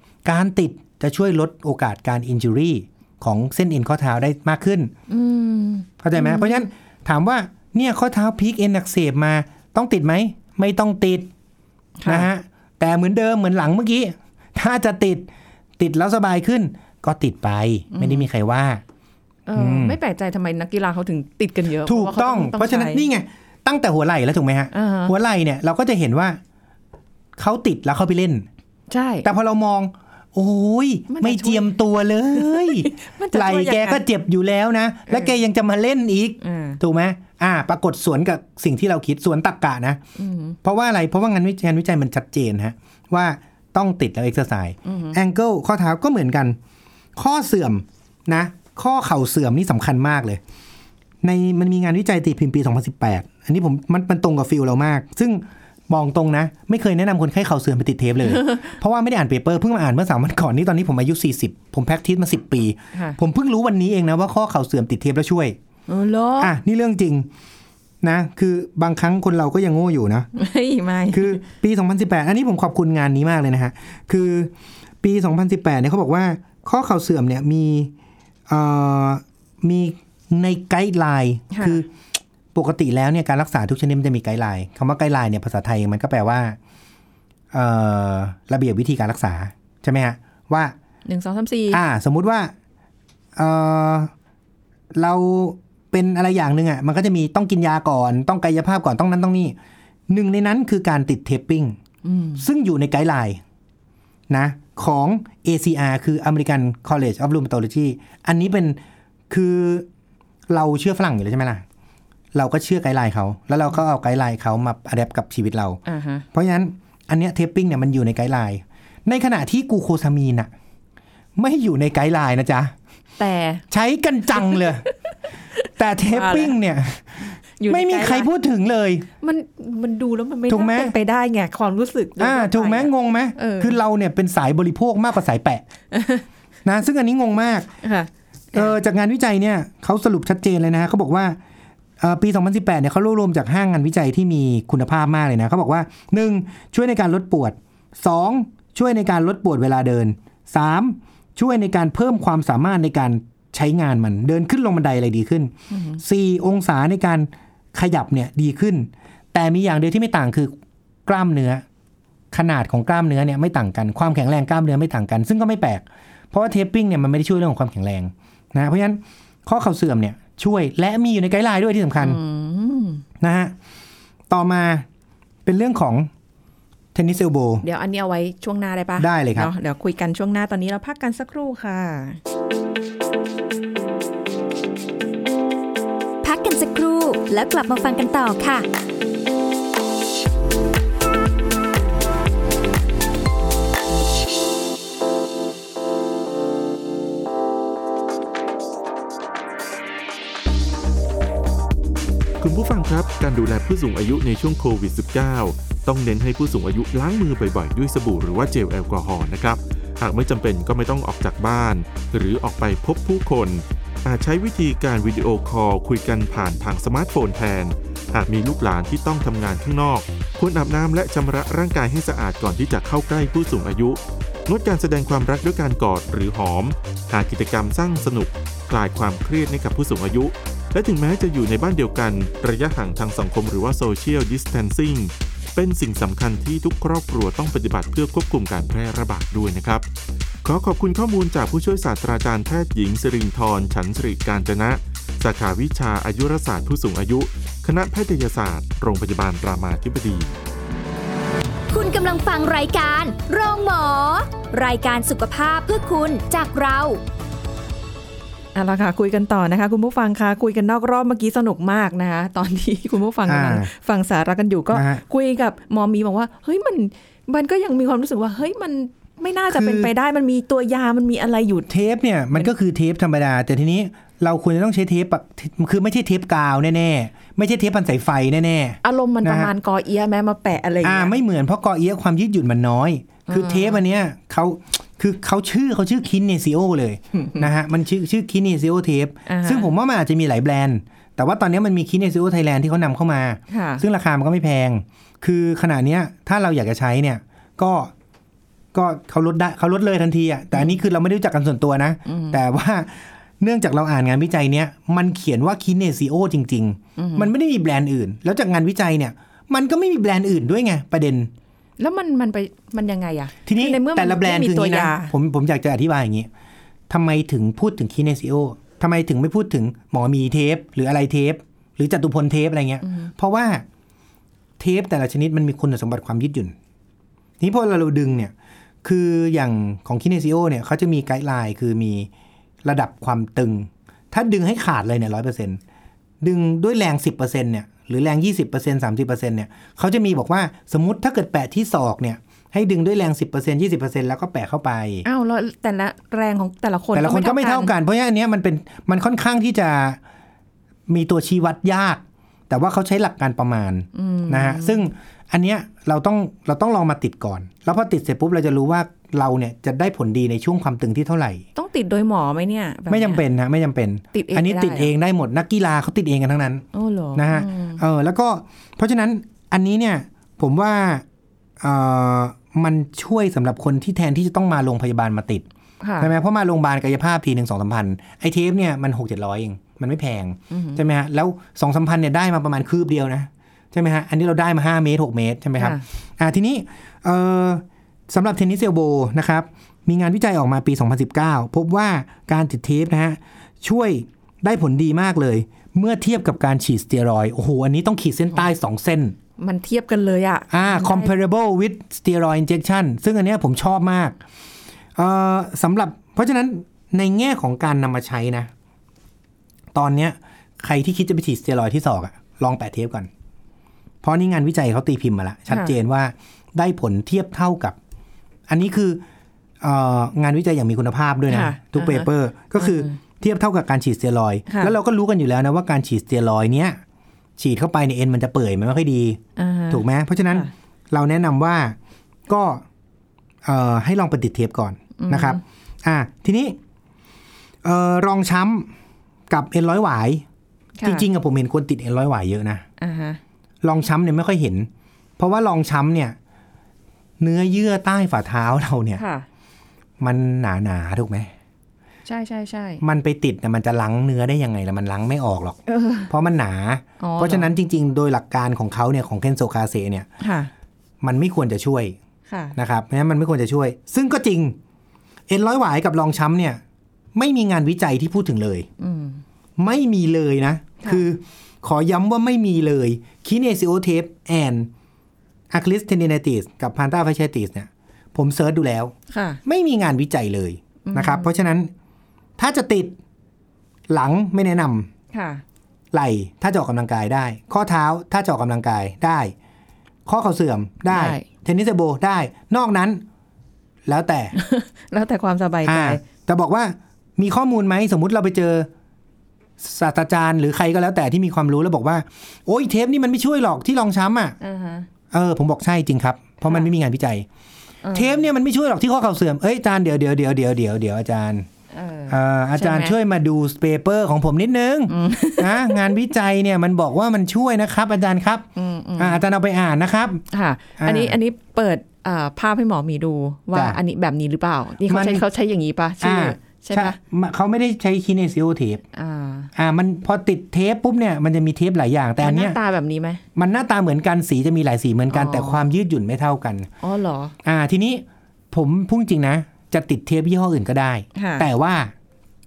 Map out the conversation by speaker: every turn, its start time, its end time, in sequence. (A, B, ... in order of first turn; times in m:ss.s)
0:00.2-0:04.9 A
0:05.1-0:06.6 B
0:06.0-0:11.3 A
0:12.0-0:12.3 B
0:12.0-0:15.3 A
0:15.8-0:18.8 A
0:17.9-0:18.3 B
0:19.5-0:23.0 B
0:19.6-0:20.0 A
0:21.8-0:26.4 A
0:24.7-0:25.1 B
0:27.4-0:28.5 A
0:28.9-0:29.2 B
0:29.2-0:40.0 A
0:31.1-0:31.7 B
0:32.3-0:34.0 B
0:35.1-0:35.3 B
0:36.4-0:36.8 B
0:40.2-0:40.6 B
0:40.6-0:46.6 A
0:44.8-0:45.2 B
0:47.2-0:50.4 A
0:51.2-1:05.6 A
1:02.9-1:03.2 B
1:05.9-1:06.5 B
1:06.4-1:07.3 A
1:08.0-1:10.3 A
1:10.4-1:11.4 B
1:11.1-1:14.5 A
1:15.0-1:17.9 A
1:18.5-1:21.9 A
1:21.5-1:21.8 B
1:22.5-1:26.6 A
1:27.5-1:30.8 A
1:31.0-1:31.8 B
1:31.7-1:32.5 A
1:33.4-1:34.1 A
1:34.9-1:39.6 A
1:40.1-1:41.8 A
1:42.0-1:42.4 B
1:42.4-1:43.4 A
1:44.3-1:48.8 A
1:49.3-1:49.9 A
1:50.5-1:51.6 A
1:52.3-1:55.8 A
1:55.9-1:56.2 B
1:56.3-2:00.5 A
2:01.4-2:02.7 A
2:03.2-2:03.6 B
2:03.7-2:04.8 A
2:04.4-2:04.6 B
2:05.6-2:06.6 B
2:05.8-2:09.1 A
2:07.6-2:08.3 B
2:09.2-2:13.8 B
2:10.5-2:10.9 A
2:12.2-2:15.6 A
2:15.9-2:16.2 B
2:16.6-2:17.7 A
2:17.8-2:18.8 B
2:18.5-2:21.4 A
2:22.0-2:40.5 A
2:35.7-2:36.0 B
2:41.1-2:41.6 A
2:42.3-2:52.2 A
2:52.0-2:53.0 B
2:53.2-2:53.5 A
2:54.3-2:54.8 A
2:55.4-2:56.1 A
2:56.9-2:57.6 A
2:57.6-3:02.2 B
2:59.0-2:59.5 A
3:06.2-3:08.6 C
3:22.4-3:59.8 D
4:00.4-4:10.4 D
4:11.7-4:17.0 C
4:18.5-4:31.7 B
4:23.3-4:23.7 A
4:24.7-4:25.0 A
4:29.5-4:29.9 A
4:31.7-4:39.5 A
4:38.8-4:41.2 B
4:40.8-4:57.9 A
4:43.3-4:43.8 B
4:47.1-4:47.4 B
4:49.2-4:49.7 B
4:53.5-4:53.8 B
4:58.7-5:11.3 A
5:02.1-5:02.4 B
5:07.0-5:07.3 B
5:11.8-5:15.1 B
5:13.4-5:16.3 A
5:16.9-5:23.6 A
5:22.8-5:23.1 B
5:24.6-5:26.6 A
5:27.4-5:28.3 A
5:28.8-5:32.1 A
5:32.6-5:35.6 A
5:36.2-5:45.0 A
5:45.0-5:47.7 B
5:46.9-5:50.0 A
5:50.9-6:01.4 A
5:53.9-5:54.9 B
6:01.6-6:03.2 B
6:02.9-6:06.6 A
6:04.1-6:04.9 B
6:06.7-6:07.8 B
6:07.2-6:11.0 A
6:11.6-6:15.4 A
6:15.8-6:16.1 B
6:16.0-6:39.1 A
6:20.5-6:20.8 B
6:25.6-6:25.8 B
6:39.4-6:41.1 B
6:40.5-6:44.2 A
6:45.0-6:48.5 A
6:49.7-6:53.1 A
6:54.0-6:57.8 A
6:55.5-6:55.7 B
6:58.5-6:59.0 A
6:59.6-7:06.8 A
7:01.3-7:03.0 B
7:04.5-7:04.7 B
7:07.4-7:11.8 A
7:09.4-7:10.5 B
7:12.3-7:12.6 A
7:13.4-7:16.6 A
7:15.0-7:15.4 B
7:17.6-7:18.7 A
7:19.3-7:20.2 A
7:20.8-7:21.1 B
7:20.8-7:22.6 A
7:22.8-7:23.2 B
7:23.6-7:26.2 A
7:27.2-7:29.0 A
7:29.0-7:29.2 B
7:30.0-7:31.3 A
7:32.1-7:32.8 B
7:32.8-7:40.1 A
7:35.7-7:36.1 B
7:37.0-7:37.5 B
7:40.2-7:40.5 B
7:41.0-7:42.0 A
7:42.3-7:42.6 B
7:42.6-7:44.6 A
7:45.3-7:46.6 A
7:47.1-7:48.7 A
7:48.8-7:49.2 B
7:49.6-7:54.7 A
7:55.5-8:01.7 A
7:59.1-7:59.4 B
8:00.8-8:01.3 B
8:02.4-8:03.0 A
8:03.9-8:04.9 A
8:05.1-8:05.4 B
8:05.9-8:09.3 A
8:10.1-8:13.0 A
8:10.9-8:11.2 B
8:13.9-8:14.4 A
8:14.4-8:16.0 B
8:15.6-8:18.7 A
8:19.6-8:24.4 A
8:24.4-8:24.9 B
8:25.1-8:27.3 A
8:27.8-8:28.2 B
8:27.9-8:31.5 A
8:31.7-8:32.9 B
8:32.1-8:38.5 A
8:34.9-8:35.9 B
8:38.6-8:39.2 B
8:39.0-8:40.2 A
8:40.3-8:47.0 B
8:40.8-8:41.2 A
8:43.5-8:43.8 A
8:44.8-8:45.2 A
8:46.0-8:48.8 A
8:48.9-8:49.5 B
8:49.6-8:52.6 A
8:52.2-8:53.2 B
8:53.4-8:56.7 A
8:55.1-8:55.6 B
8:56.8-8:57.3 B
8:57.4-9:01.9 A
9:01.1-9:01.5 B